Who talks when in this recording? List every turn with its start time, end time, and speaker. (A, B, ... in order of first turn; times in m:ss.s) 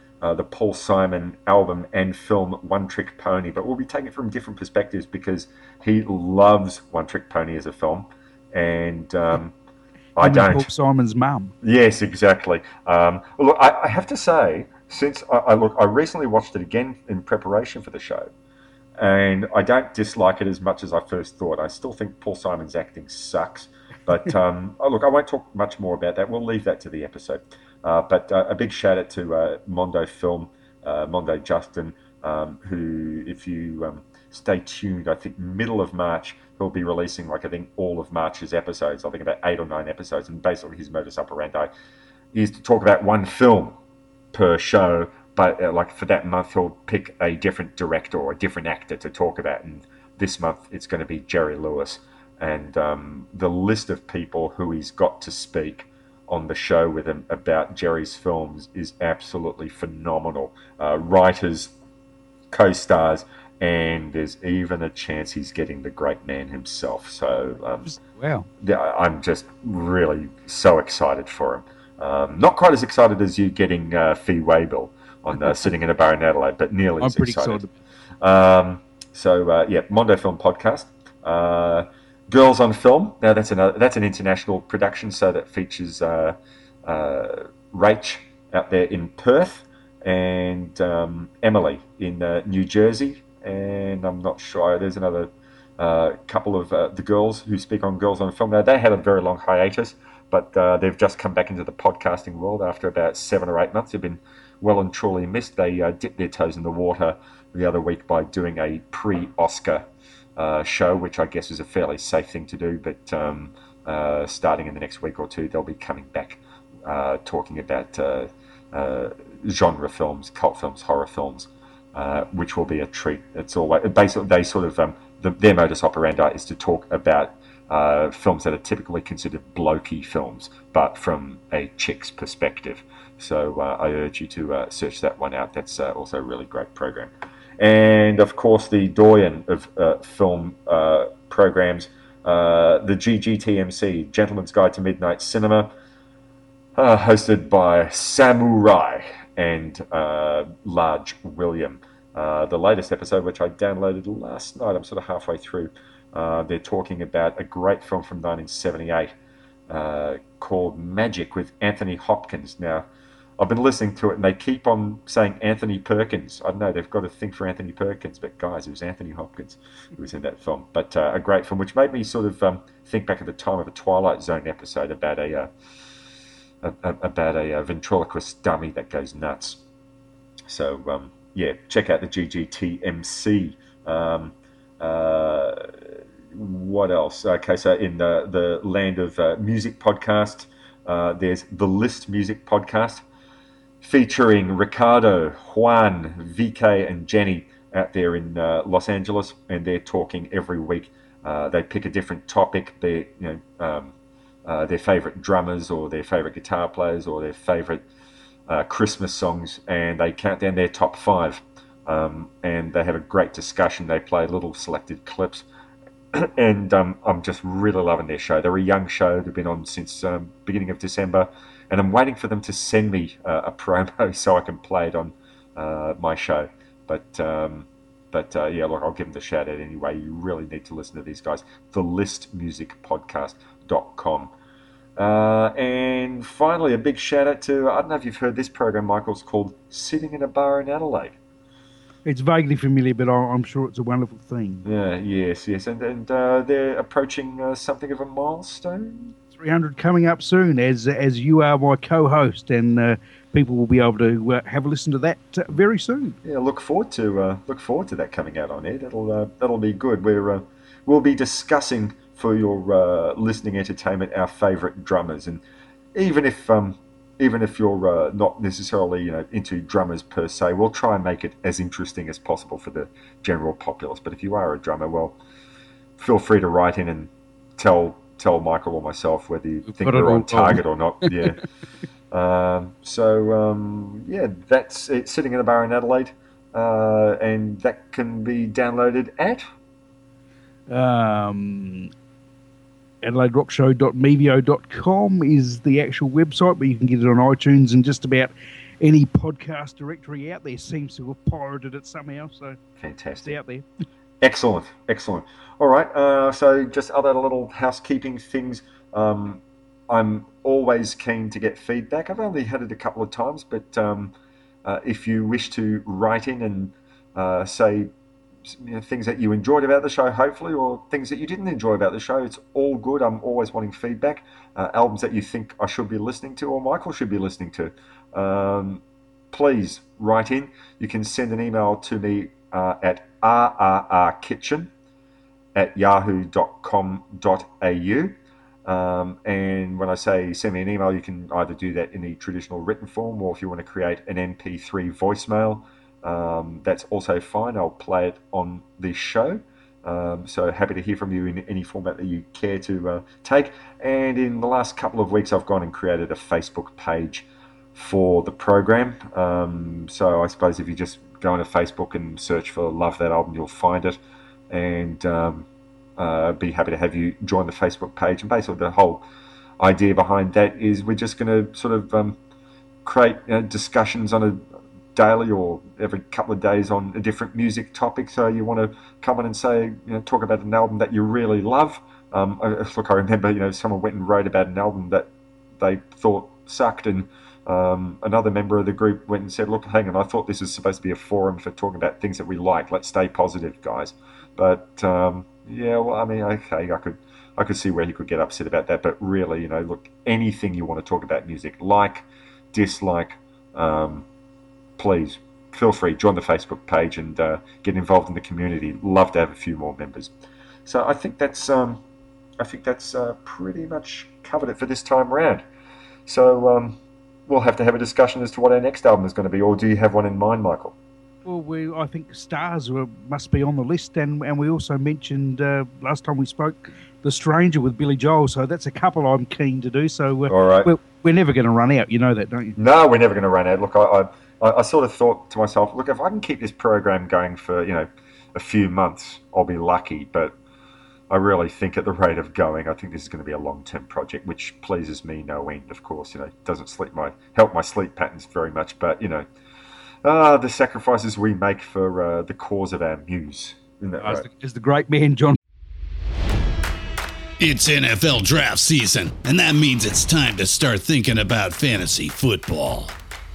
0:00.2-0:09.5 A
0:10.2-0:10.7 A
0:10.2-0:11.5 B
0:11.6-0:18.3 A
0:19.0-0:41.7 A
0:42.3-0:43.8 A
0:44.3-1:01.7 A
1:02.5-1:07.9 A
1:07.8-1:08.5 B
1:08.6-1:17.6 A
1:17.0-1:17.7 B
1:18.2-1:49.8 A
1:50.4-2:25.7 A
2:26.8-2:39.1 A
2:39.7-2:42.9 A
2:43.4-2:55.5 A
2:56.6-2:59.6 A
3:00.5-3:13.0 A
3:13.8-3:23.9 A
3:24.4-3:27.8 A
3:28.5-3:35.4 A
3:36.1-3:54.3 A
3:55.0-4:01.2 A
4:02.0-4:04.6 B
4:04.6-4:09.1 A
4:09.3-4:16.2 B
4:16.2-4:25.4 A
4:25.9-4:35.2 A
4:36.0-4:41.4 A
4:39.6-4:41.1 B
4:42.1-4:49.5 A
4:50.7-4:51.9 B
4:53.0-5:02.6 B
5:02.8-5:03.4 A
5:03.2-5:03.7 B
5:04.2-5:14.1 A
5:14.6-5:17.9 A
5:18.4-5:34.7 A
5:35.5-6:04.0 A
6:04.5-6:09.0 A
6:09.6-6:12.2 A
6:12.8-6:44.0 A
6:44.8-6:50.1 A
6:50.6-6:51.8 A
6:52.4-6:55.4 A
6:56.0-7:00.8 A
7:01.2-7:12.6 B
7:10.3-7:10.7 A
7:12.6-7:20.4 A
7:21.1-7:29.3 A
7:30.0-7:34.3 A
7:34.0-7:35.4 B
7:37.4-7:42.9 C